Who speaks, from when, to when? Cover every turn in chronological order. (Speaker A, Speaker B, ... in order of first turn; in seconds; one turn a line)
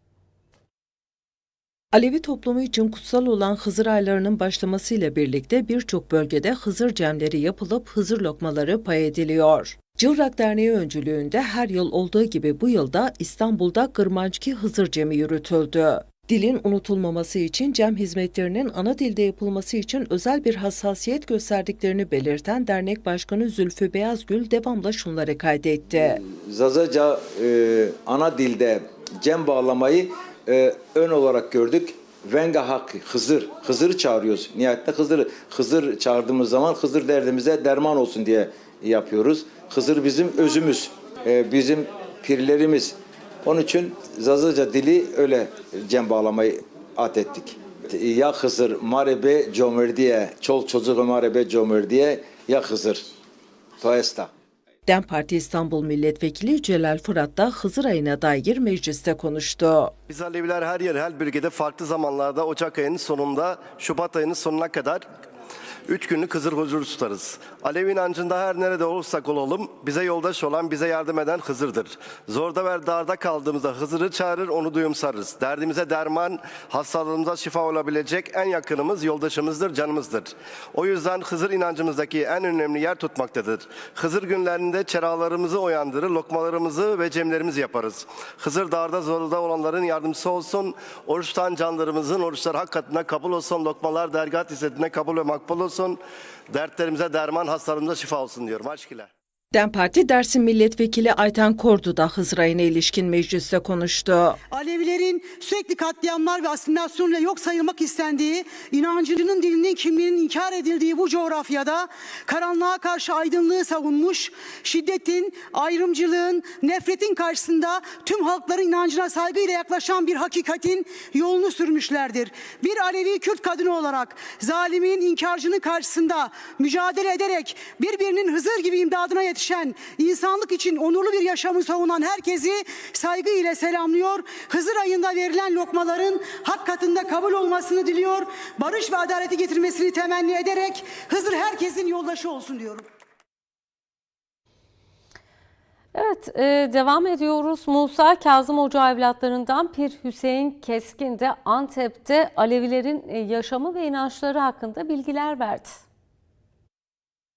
Speaker A: 1.9-26.2
Speaker B: 26.1-53.1
Speaker B: 53.8-54.3
Speaker A: 54.9-60.0
Speaker C: 60.1-65.0
Speaker C: 65.9-99.1
Speaker A: 99.5-104.4
Speaker D: 104.5-142.9
Speaker E: 145.9-155.8